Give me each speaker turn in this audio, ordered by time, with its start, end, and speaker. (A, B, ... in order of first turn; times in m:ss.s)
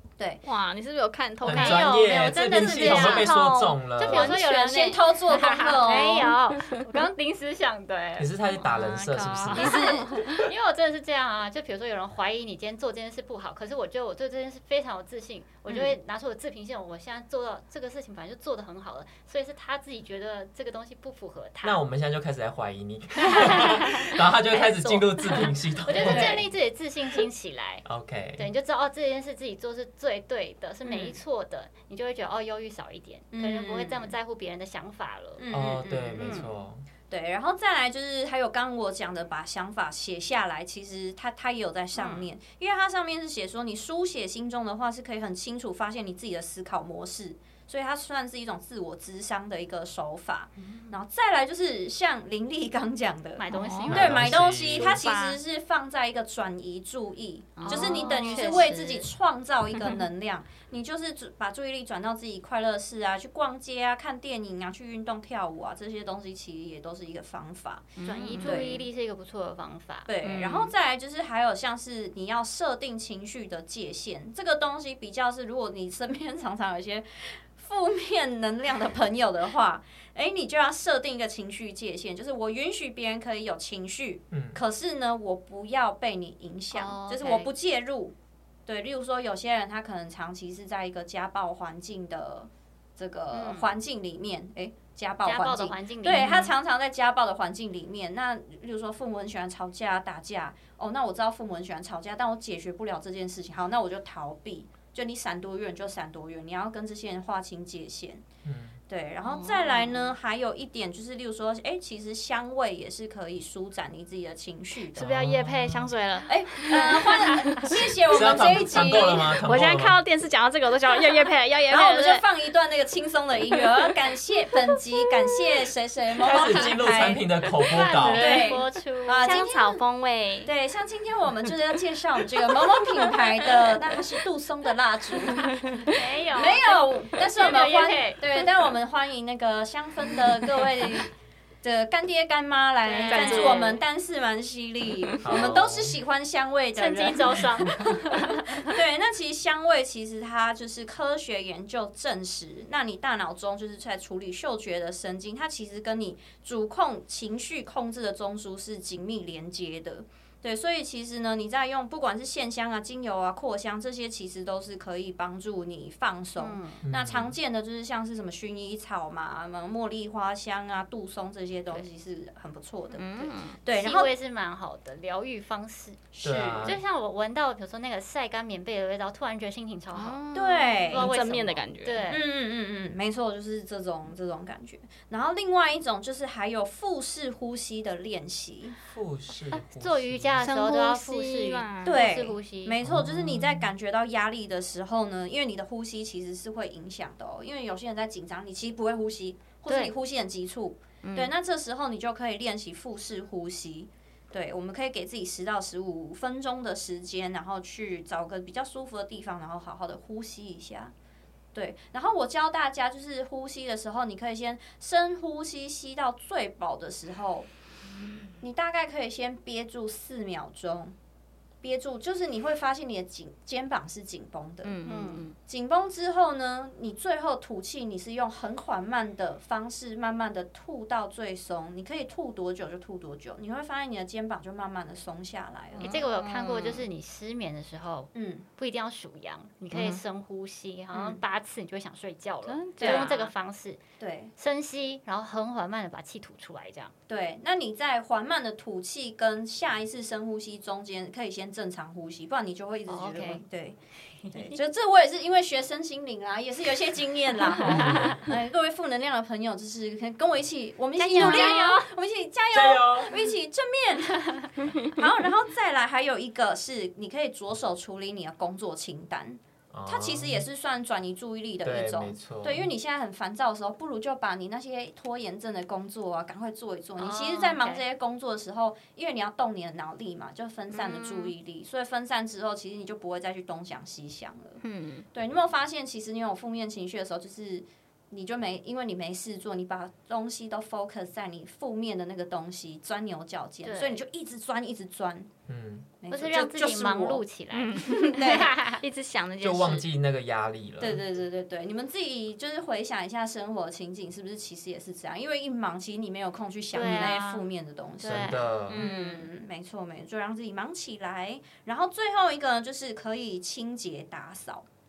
0:00.4-0:05.0 A
0:01.4-0:04.4 B
0:01.5-0:03.3 C
0:04.0-0:08.3 C
0:04.1-0:06.3 D
0:08.2-0:10.0 B
0:08.5-0:10.4 A
0:09.5-0:10.2 D
0:10.4-0:21.8 C
0:15.7-0:15.9 D
0:21.6-0:26.4 B
0:23.2-0:23.9 C
0:24.5-0:25.5 A
0:25.8-0:27.8 C
0:26.0-0:26.4 D
0:27.8-0:28.4 B
0:28.4-0:35.4 C
0:30.8-0:31.2 D
0:33.3-0:34.1 D
0:35.4-0:36.5 D
0:35.5-0:36.8 B
0:36.2-0:36.5 C
0:37.1-1:08.8 D
0:41.9-0:42.3 C
0:50.6-0:50.9 C
0:53.4-0:54.5 C
0:53.5-0:54.0 A
0:53.9-0:55.0 B
0:54.7-0:55.4 A
0:57.6-0:59.1 A
0:57.6-0:58.8 C
0:59.7-1:00.0 A
1:08.0-1:08.7 A
1:08.0-1:10.1 C
1:10.1-1:28.1 D
1:10.2-1:10.7 A
1:24.3-1:24.6 B
1:26.7-1:27.5 C
1:28.6-1:48.2 D
1:33.3-1:33.7 C
1:35.2-1:36.4 C
1:36.1-1:36.5 A
1:48.4-1:48.8 B
1:48.9-1:55.1 D
1:49.2-1:50.1 A
1:54.9-1:58.3 A
1:55.0-1:55.9 B
1:56.2-1:59.4 D
1:58.0-2:00.0 B
1:59.4-2:02.2 A
2:01.7-2:07.2 D
2:06.2-2:08.4 B
2:07.7-2:09.4 C
2:08.0-2:09.8 D
2:08.0-2:08.6 A
2:09.2-2:10.5 A
2:10.4-2:15.7 D
2:15.5-2:15.9 A
2:15.8-2:18.2 C
2:16.3-2:27.7 D
2:22.8-2:23.8 C
2:23.1-2:23.8 A
2:24.9-2:25.5 A
2:25.2-2:26.0 B
2:26.7-2:28.7 C
2:28.6-2:54.1 D
2:46.4-2:46.8 C
2:46.8-2:47.4 B
2:52.9-2:53.6 A
2:53.7-3:00.2 C
2:56.1-2:56.7 D
2:56.2-2:56.8 B
2:59.9-3:02.1 A
3:00.3-3:01.1 D
3:00.9-3:02.2 C
3:02.1-3:08.8 D
3:08.8-3:10.4 B
3:09.5-3:12.8 C
3:10.4-3:12.1 A
3:11.8-3:30.9 D
3:12.8-3:13.7 B
3:19.7-3:19.9 C
3:21.0-3:21.3 A
3:31.5-3:37.5 D
3:38.4-3:40.9 D
3:41.6-3:44.7 D
3:44.6-3:45.4 A
3:44.8-3:45.3 C
3:45.4-3:56.0 D
3:55.7-3:56.8 A
3:55.8-4:03.8 C
3:58.1-3:58.4 D
3:59.7-4:00.0 A
4:00.9-4:01.2 D
4:02.4-4:03.3 A
4:02.8-4:03.1 D
4:04.0-4:04.3 D
4:04.4-4:06.9 C
4:07.1-4:13.8 D
4:12.9-4:13.4 C
4:14.2-4:14.6 C
4:14.3-4:44.6 D
4:17.6-4:18.2 B
4:17.7-4:18.2 C
4:21.0-4:21.9 C
4:21.2-4:21.7 A
4:22.5-4:23.1 B
4:29.7-4:30.4 B
4:31.6-4:32.7 B
4:37.0-4:37.8 C
4:40.7-4:41.3 A
4:44.6-4:45.0 A
4:45.1-4:55.3 D
4:53.6-4:54.0 C
4:55.5-4:55.9 B
4:56.0-4:57.2 D
4:56.1-4:58.8 C
4:57.5-4:59.8 A
4:58.0-4:58.5 D
4:59.4-5:01.0 B
5:00.8-5:14.6 D
5:06.7-5:07.4 C
5:08.0-5:09.3 C
5:08.0-5:08.9 B